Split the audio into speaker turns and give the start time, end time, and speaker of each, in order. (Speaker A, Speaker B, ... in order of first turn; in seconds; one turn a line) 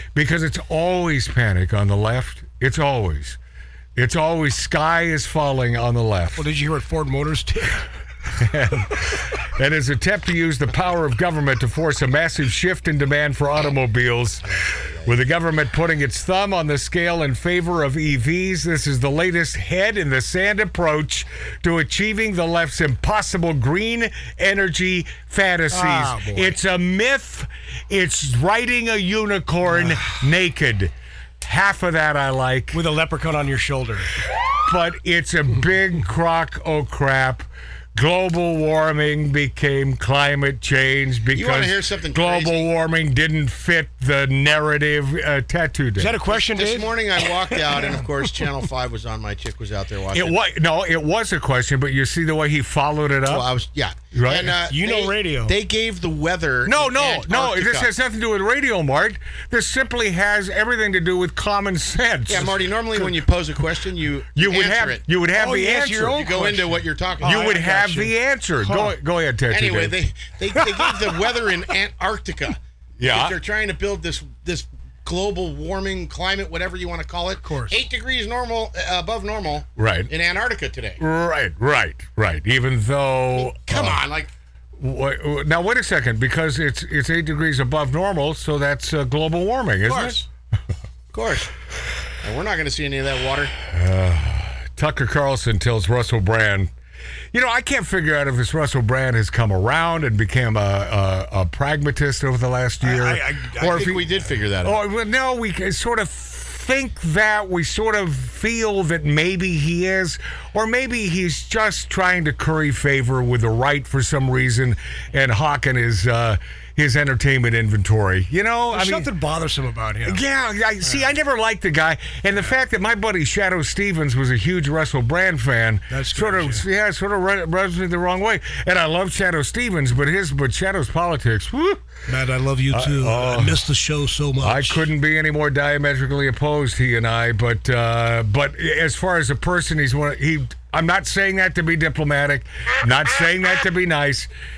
Speaker A: 0.1-3.4
Speaker A: 4.0-6.5
Speaker B: 6.4-7.8
Speaker A: 8.3-14.4
Speaker A: 15.0-32.8
Speaker B: 25.7-26.6
Speaker B: 32.7-34.1
Speaker A: 34.6-46.2
Speaker C: 41.3-42.7
Speaker B: 46.0-46.9
Speaker C: 46.3-50.3
Speaker A: 50.1-53.5
Speaker C: 53.3-57.9
Speaker A: 54.1-54.6
Speaker B: 54.7-55.5
Speaker A: 56.6-63.2
Speaker C: 62.3-65.0
Speaker A: 64.3-66.3
Speaker B: 65.3-68.1
Speaker C: 66.1-67.5
Speaker A: 67.2-70.0
Speaker B: 68.6-68.9
Speaker C: 69.5-81.0
Speaker A: 73.0-73.3
Speaker B: 77.4-77.8
Speaker A: 79.8-80.1
Speaker A: 81.0-84.0
Speaker C: 83.4-84.3
Speaker A: 84.8-90.2
Speaker B: 89.9-90.2
Speaker C: 91.1-91.5
Speaker C: 92.2-93.5
Speaker A: 93.6-96.7
Speaker A: 97.3-103.2
Speaker B: 102.8-104.0
Speaker C: 103.6-104.8
Speaker A: 104.6-119.1
Speaker B: 118.7-120.2
Speaker A: 120.1-131.8
Speaker B: 125.9-126.6
Speaker B: 132.1-134.8
Speaker A: 132.7-133.6
Speaker A: 134.4-144.3